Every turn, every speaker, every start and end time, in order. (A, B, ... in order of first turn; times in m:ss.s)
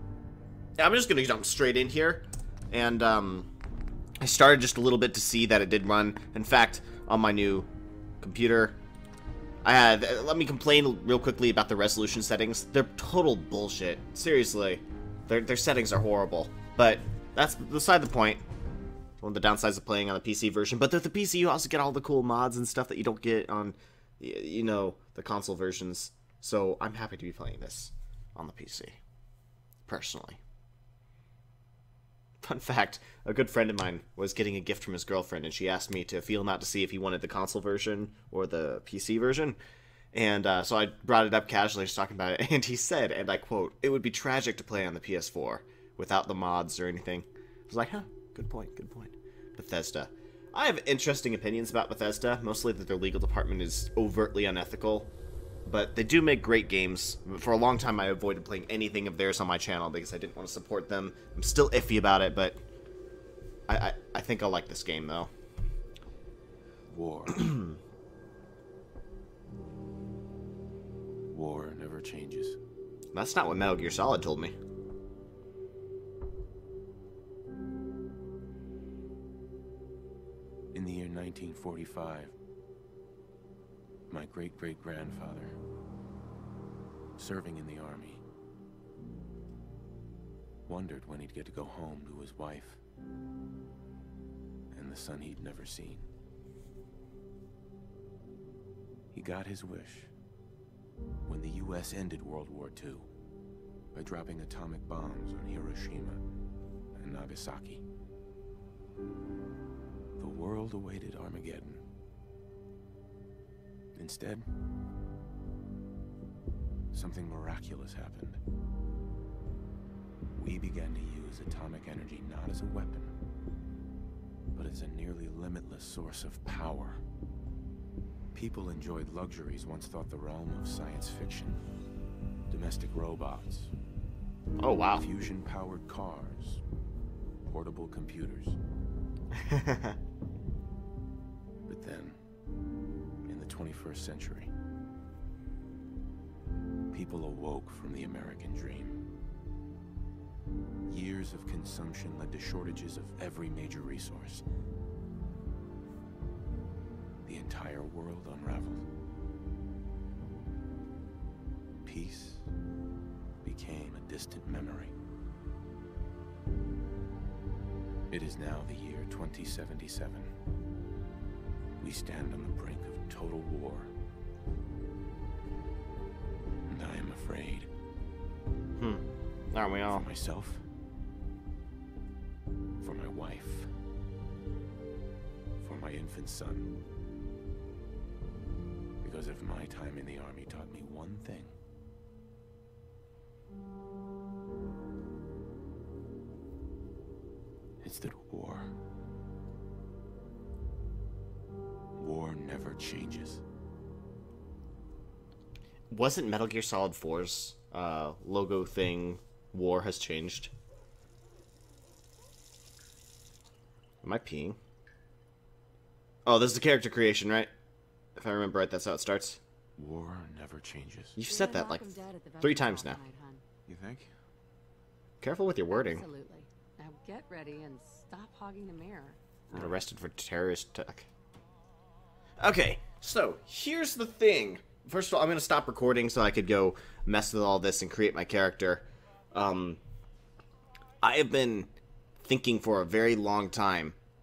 0:00.8-0:03.5 A
0:04.2-0:07.7 A
0:08.2-0:08.8 A
0:09.6-0:18.4 A
0:19.2-0:29.0 A
0:29.8-0:30.4 A
0:32.4-0:39.6 A
0:40.1-0:55.1 A
0:55.6-1:02.6 A
1:03.7-1:05.3 A
1:06.9-1:07.6 B
1:07.4-1:07.7 A
1:11.3-1:12.6 B
1:13.1-1:14.5 A
1:20.7-1:22.3 B
1:24.1-1:25.6 B
1:27.2-1:28.2 B
1:30.7-1:32.8 B
1:34.7-1:36.1 B
1:39.1-1:40.1 B
1:41.2-1:43.1 B
1:43.9-1:46.2 B
1:46.9-1:47.8 B
1:50.2-1:51.8 B
1:53.9-1:54.5 B
1:56.9-1:58.4 B
2:00.3-2:03.1 B
2:04.5-2:07.0 B
2:08.3-2:11.6 B
2:12.5-2:13.7 B
2:14.6-2:15.0 A
2:14.9-2:16.6 B
2:17.5-2:18.6 B
2:19.3-2:20.0 A
2:21.7-2:22.2 B
2:23.2-2:24.5 B
2:26.9-2:29.0 B
2:30.9-2:34.4 B
2:37.2-2:38.8 B
2:41.8-2:42.5 B
2:43.4-2:44.9 B
2:48.1-2:50.3 B
2:51.8-2:53.9 B
2:56.7-2:57.7 B
2:58.8-3:00.0 A
2:59.9-3:00.6 B
3:02.8-3:03.7 B
3:05.6-3:06.7 B
3:09.0-3:11.5 B
3:17.8-3:18.7 B
3:22.0-3:23.4 B
3:25.9-3:30.5 A
3:34.0-3:34.6 A
3:36.2-3:37.5 A
3:38.2-3:39.4 A
3:39.8-3:41.2 B
3:41.2-3:43.0 A
3:41.2-3:43.4 C
3:43.7-3:44.1 B
3:45.2-3:46.0 A
3:45.7-3:49.2 C
3:49.5-3:51.1 A
3:52.4-3:59.8 A
4:01.0-4:04.0 A